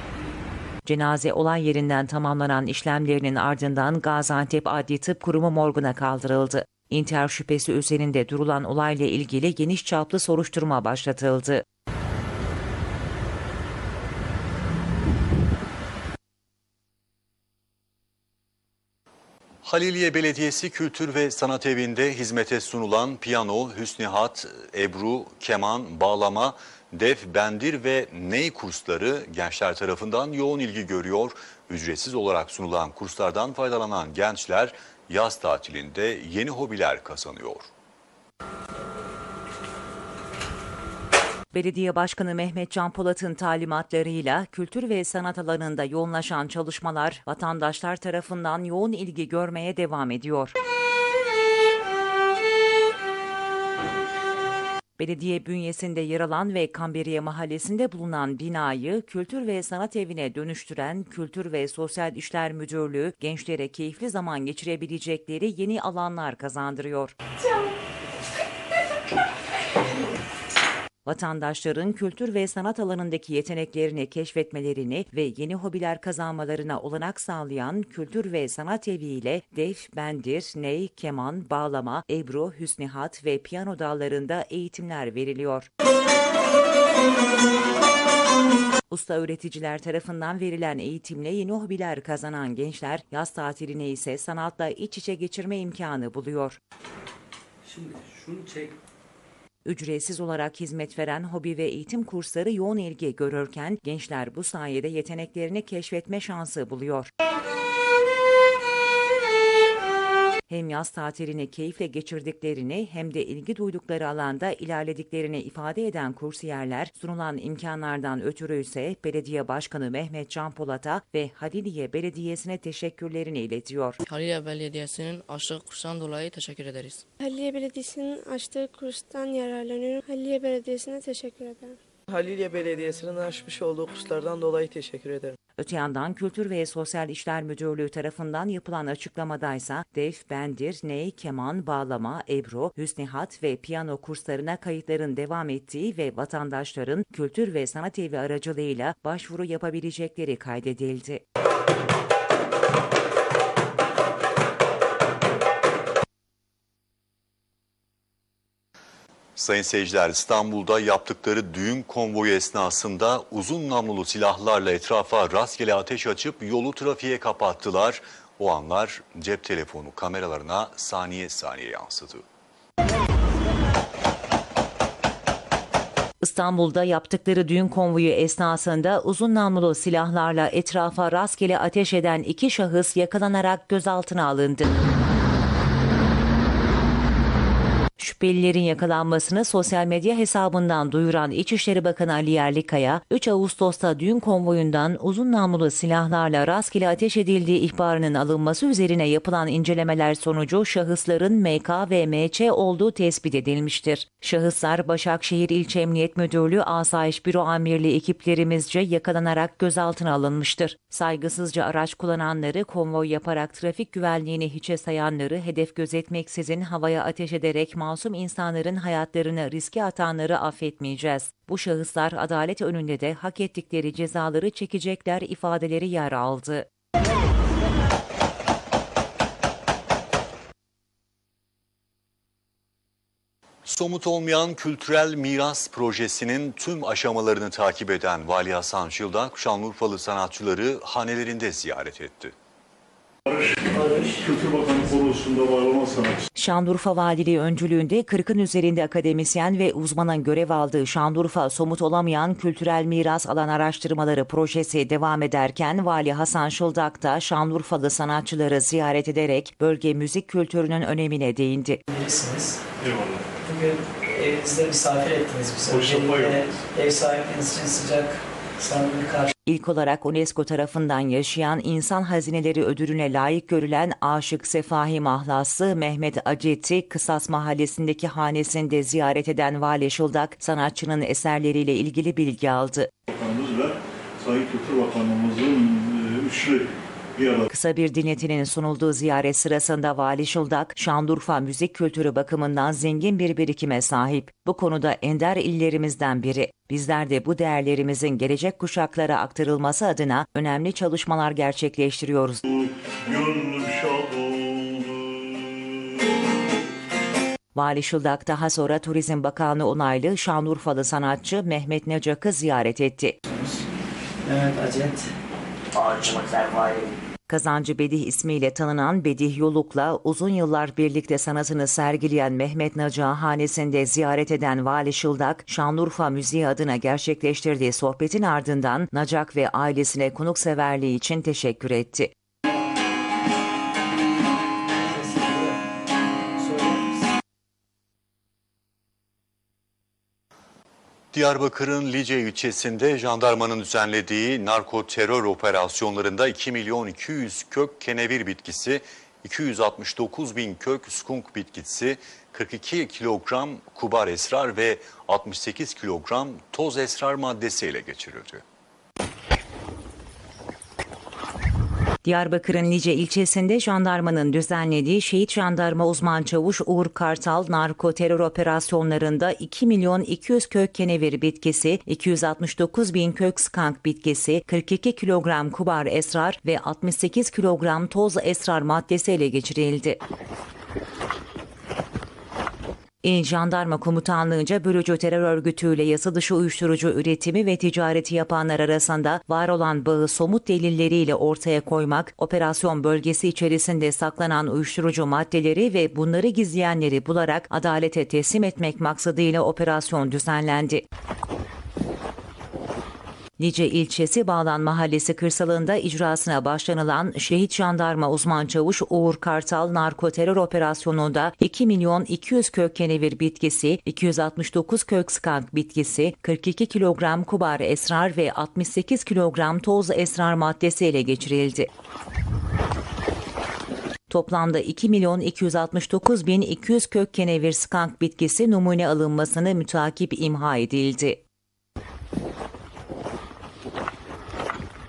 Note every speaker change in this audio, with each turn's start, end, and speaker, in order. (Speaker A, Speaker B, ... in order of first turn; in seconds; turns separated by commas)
Speaker A: 0.8-11.6, Speaker B: 19.6-37.7, Speaker A: 41.5-50.5, Speaker A: 55.0-67.1, Speaker A: 71.0-85.7, Speaker A: 88.9-96.6, Speaker A: 99.6-107.1, Speaker A: 110.5-124.0, Speaker C: 124.0-127.0, Speaker D: 127.2-131.8, Speaker E: 132.1-135.3, Speaker A: 135.6-151.2, Speaker B: 159.3-172.2, Speaker A: 176.2-184.7, Speaker A: 188.0-226.7, Speaker B: 233.6-242.3, Speaker F: 243.2-246.2, Speaker G: 243.7-244.2, Speaker A: 246.3-261.8, Speaker G: 261.9-262.6, Speaker F: 262.8-263.4, Speaker G: 263.4-269.3, Speaker F: 265.7-266.6, Speaker A: 269.4-282.9, Speaker F: 283.1-287.5, Speaker A: 287.5-302.4, Speaker F: 302.4-305.6, Speaker A: 307.5-313.1, Speaker G: 313.3-313.6, Speaker G: 314.2-315.1, Speaker G: 315.8-316.9, Speaker A: 317.3-332.1, Speaker G: 334.9-335.5, Speaker G: 336.4-336.8, Speaker B: 341.1-358.4, Speaker A: 362.0-380.0, Speaker A: 383.0-400.8, Speaker A: 403.4-421.7, Speaker A: 424.1-431.2